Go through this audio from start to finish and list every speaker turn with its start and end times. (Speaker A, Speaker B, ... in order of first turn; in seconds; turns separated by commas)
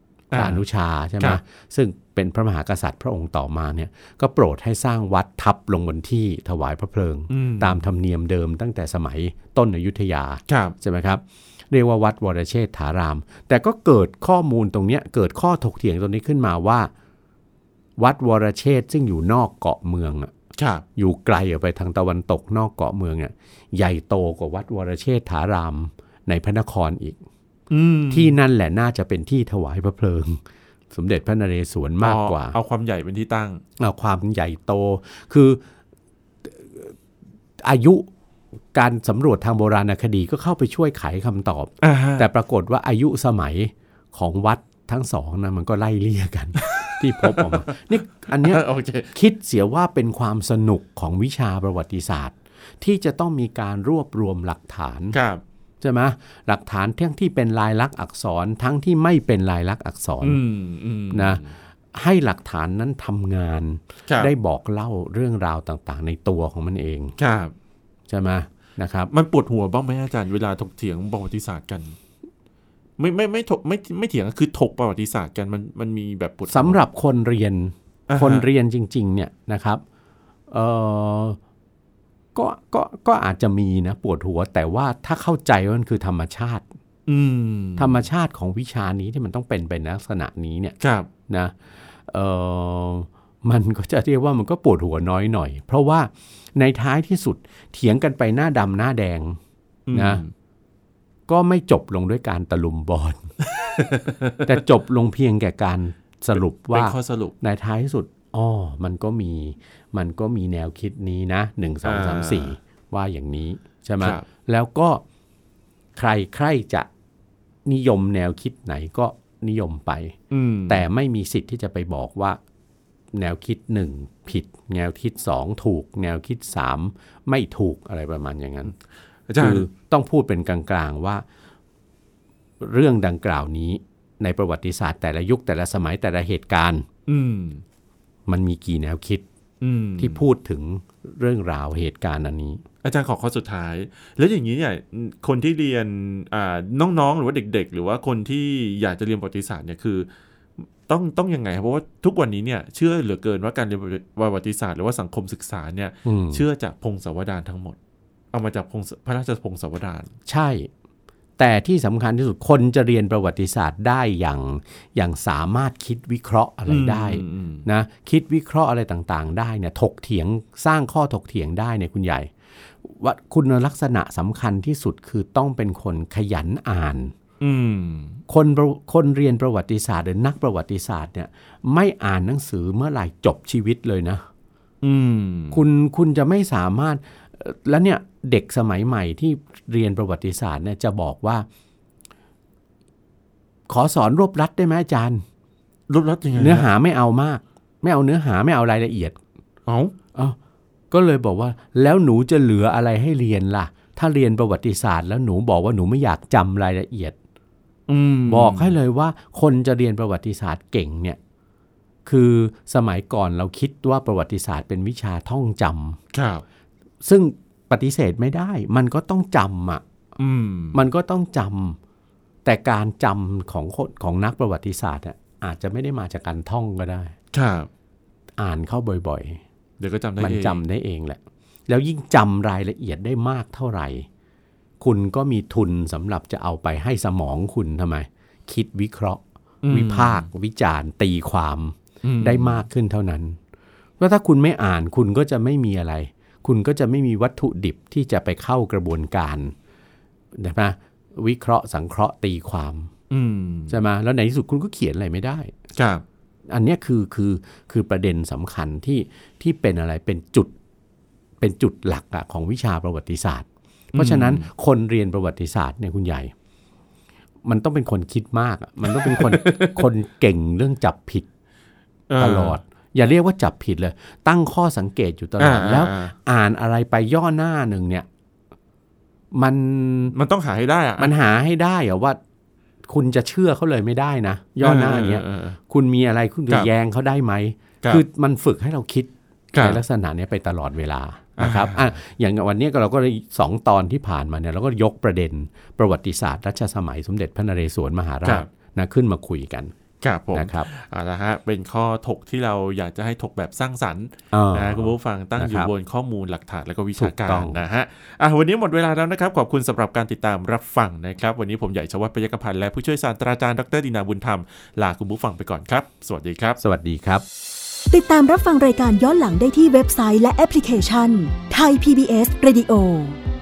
Speaker A: 0.3-0.6, Speaker B: 0.3-16.9, Speaker A: 7.3-7.8, Speaker A: 10.5-10.8, Speaker B: 18.0-20.3, Speaker A: 20.6-20.8, Speaker B: 20.9-27.2, Speaker A: 27.7-28.4, Speaker B: 28.1-32.5, Speaker A: 32.0-33.6, Speaker B: 33.8-35.6, Speaker B: 36.4-36.9, Speaker B: 37.6-38.1, Speaker B: 38.7-55.2, Speaker A: 41.8-42.2, Speaker A: 46.7-49.1, Speaker A: 55.1-55.4, Speaker B: 55.8-60.4, Speaker A: 60.2-61.5, Speaker B: 61.1-61.4, Speaker B: 61.9-67.1, Speaker A: 64.1-64.3, Speaker A: 67.2-67.5, Speaker B: 68.1-69.1, Speaker A: 69.1-72.0, Speaker A: 73.0-76.8, Speaker B: 76.5-79.8, Speaker A: 78.1-78.5, Speaker B: 80.5-81.4, Speaker B: 82.3-86.7, Speaker A: 87.1-88.0, Speaker B: 87.8-90.8, Speaker A: 90.8-91.1, Speaker B: 91.3-99.4, Speaker A: 99.9-100.3, Speaker B: 99.9-100.2, Speaker B: 101.3-103.3, Speaker A: 103.6-104.6, Speaker B: 104.4-115.0, Speaker A: 106.3-107.3, Speaker A: 111.8-112.5, Speaker A: 114.0-114.2, Speaker B: 116.0-116.9, Speaker B: 117.7-120.2, Speaker A: 120.3-120.9, Speaker B: 120.7-122.4, Speaker B: 123.1-128.7, Speaker A: 129.3-129.7, Speaker B: 129.4-131.2, Speaker B: 132.6-136.8, Speaker A: 137.1-137.6, Speaker B: 138.3-139.2, Speaker A: 139.6-140.2, Speaker B: 140.0-142.6, Speaker A: 142.8-150.1, Speaker A: 150.8-157.8, Speaker B: 156.0-156.4, Speaker A: 158.3-160.1, Speaker B: 160.3-160.7, Speaker B: 161.4-172.3, Speaker A: 166.7-167.7, Speaker B: 172.8-177.1, Speaker A: 177.4-178.2, Speaker B: 178.3-184.2, Speaker A: 184.8-185.6, Speaker B: 185.5-191.5, Speaker B: 193.7-195.2, Speaker A: 195.9-196.7, Speaker B: 196.3-199.2, Speaker A: 199.7-199.9, Speaker B: 200.9-207.2, Speaker A: 207.9-208.8, Speaker B: 208.3-211.2, Speaker B: 212.1-216.0, Speaker A: 216.1-216.4, Speaker B: 217.0-219.8, Speaker A: 220.2-220.8, Speaker B: 220.7-221.8, Speaker B: 222.4-227.1, Speaker A: 227.3-227.7, Speaker B: 228.4-229.4, Speaker A: 229.8-230.6, Speaker B: 230.2-234.1, Speaker B: 234.8-243.4, Speaker A: 239.6-240.3, Speaker A: 242.0-242.7, Speaker B: 244.0-249.5, Speaker B: 250.3-252.9, Speaker A: 253.1-253.8, Speaker B: 253.7-255.5, Speaker A: 255.7-256.0, Speaker B: 256.5-260.5, Speaker B: 261.4-266.3, Speaker A: 263.9-264.4, Speaker B: 267.4-271.3, Speaker A: 268.9-269.8, Speaker A: 272.1-272.6, Speaker B: 272.2-278.1, Speaker A: 275.4-276.1, Speaker B: 279.3-280.1, Speaker A: 280.1-281.1, Speaker B: 281.0-282.2, Speaker B: 282.9-299.7, Speaker A: 284.6-285.6, Speaker A: 289.5-289.8, Speaker A: 291.4-291.9, Speaker A: 300.0-316.6, Speaker B: 300.3-300.7, Speaker B: 304.3-305.7, Speaker B: 307.0-307.6, Speaker B: 316.6-317.2, Speaker C: 317.9-323.2